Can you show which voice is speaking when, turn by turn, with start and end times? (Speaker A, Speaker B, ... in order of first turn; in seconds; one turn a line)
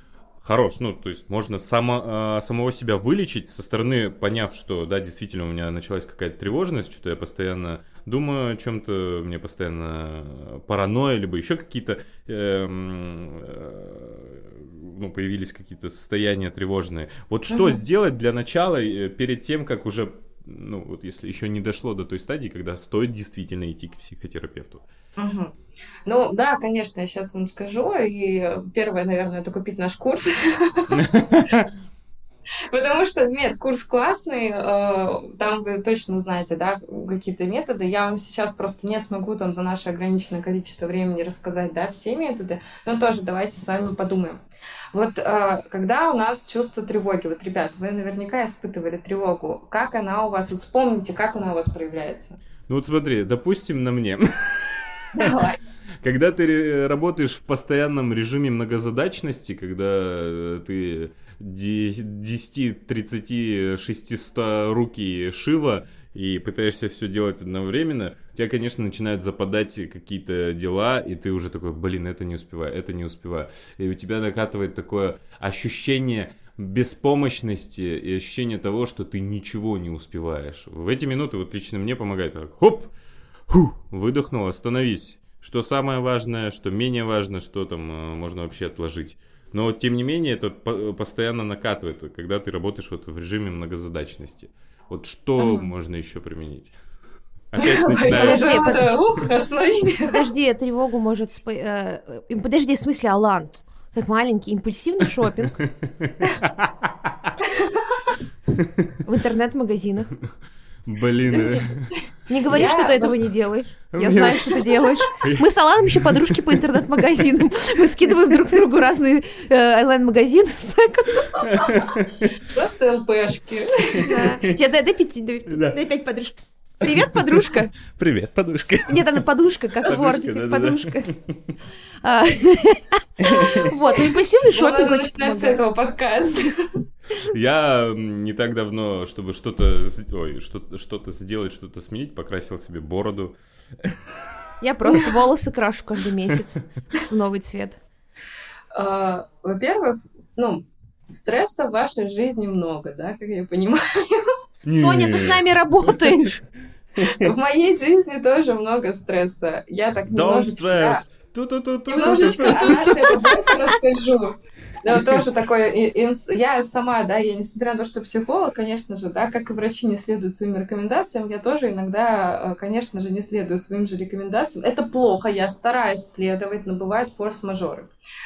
Speaker A: 0.4-24.8
Speaker B: 17.5-17.8
Speaker B: 25.2-31.1
Speaker A: 30.9-31.7
Speaker B: 32.7-44.4
Speaker B: 44.9-52.4
Speaker A: 52.7-55.4
Speaker B: 55.1-55.6
Speaker A: 56.0-82.9
Speaker A: 83.5-96.7
Speaker B: 95.4-95.7
Speaker A: 97.5-98.7
Speaker B: 97.6-100.2
Speaker C: 98.1-98.9
Speaker C: 100.0-105.6
Speaker A: 105.6-106.9
Speaker B: 107.4-108.1
Speaker A: 108.6-108.9
Speaker C: 109.0-110.1
Speaker A: 110.8-111.9
Speaker B: 111.3-113.1
Speaker C: 112.3-121.5
Speaker A: 113.9-116.6
Speaker A: 121.4-122.3
Speaker B: 122.4-124.3
Speaker A: 124.0-124.5
Speaker C: 124.0-127.7
Speaker A: 125.5-125.8
Speaker A: 126.8-129.2
Speaker C: 128.9-131.1
Speaker A: 129.8-131.2
Speaker C: 132.0-135.6
Speaker A: 133.2-133.7
Speaker B: 134.5-136.8
Speaker A: 137.2-144.0
Speaker C: 144.6-147.8
Speaker B: 144.9-145.1
Speaker B: 148.7-154.3
Speaker A: 154.6-156.1
Speaker C: 154.7-156.4
Speaker A: 157.0-157.3
Speaker B: 157.1-161.0
Speaker A: 160.1-163.2
Speaker B: 161.9-177.9
Speaker C: 162.3-163.4